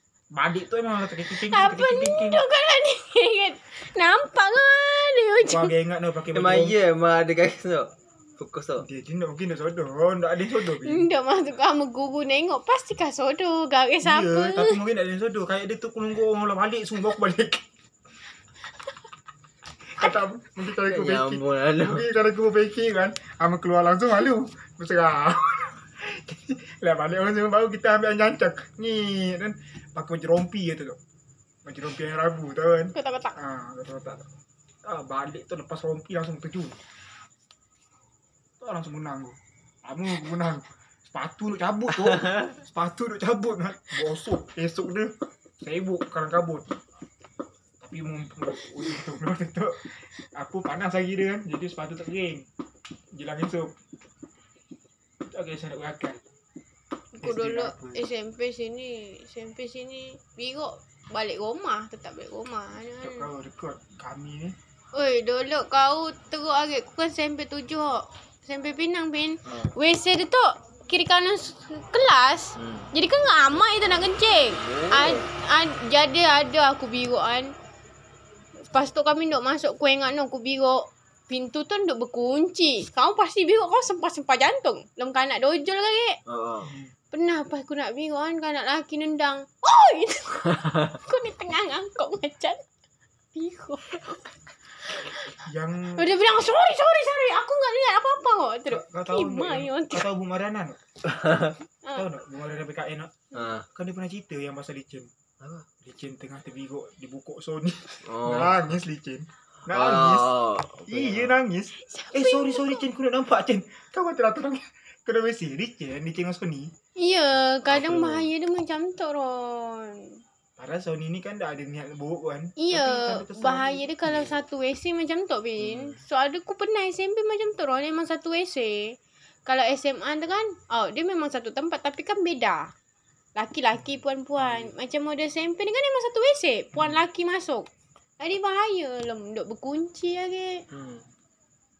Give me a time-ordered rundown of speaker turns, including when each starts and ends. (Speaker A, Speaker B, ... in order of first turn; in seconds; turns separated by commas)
Speaker A: 0.3-2.4, Speaker B: 1.5-5.7, Speaker A: 5.4-6.8, Speaker C: 6.3-8.8, Speaker A: 8.8-11.1, Speaker B: 10.8-14.8, Speaker A: 14.0-17.7, Speaker A: 19.9-31.0, Speaker C: 20.8-22.1, Speaker A: 31.6-34.3, Speaker B: 32.9-33.3, Speaker A: 34.8-36.8, Speaker A: 38.6-46.6, Speaker A: 47.8-52.5, Speaker A: 53.1-53.7, Speaker A: 55.3-56.2, Speaker B: 57.2-63.3, Speaker A: 57.2-58.1, Speaker A: 63.0-64.6, Speaker B: 64.9-77.5, Speaker C: 69.5-69.8, Speaker C: 72.5-72.9, Speaker C: 74.5-75.3, Speaker B: 78.7-86.2, Speaker C: 86.3-86.7, Speaker A: 86.7-86.9, Speaker B: 87.1-92.6, Speaker C: 90.4-91.0, Speaker B: 93.3-94.2, Speaker A: 95.4-96.1, Speaker B: 96.0-100.1, Speaker A: 98.7-100.8, Speaker C: 101.0-101.6, Speaker A: 101.9-105.1, Speaker C: 103.3-103.7, Speaker C: 105.4-105.7, Speaker A: 105.8-110.3, Speaker C: 108.0-108.7, Speaker C: 109.7-111.4, Speaker A: 110.9-116.7, Speaker B: 111.8-112.8, Speaker B: 117.0-120.2, Speaker C: 117.7-118.3, Speaker A: 120.6-123.9, Speaker B: 122.6-132.7, Speaker C: 125.6-126.0, Speaker B: 133.3-137.7, Speaker C: 134.4-134.7, Speaker B: 138.2-140.6, Speaker C: 140.7-141.1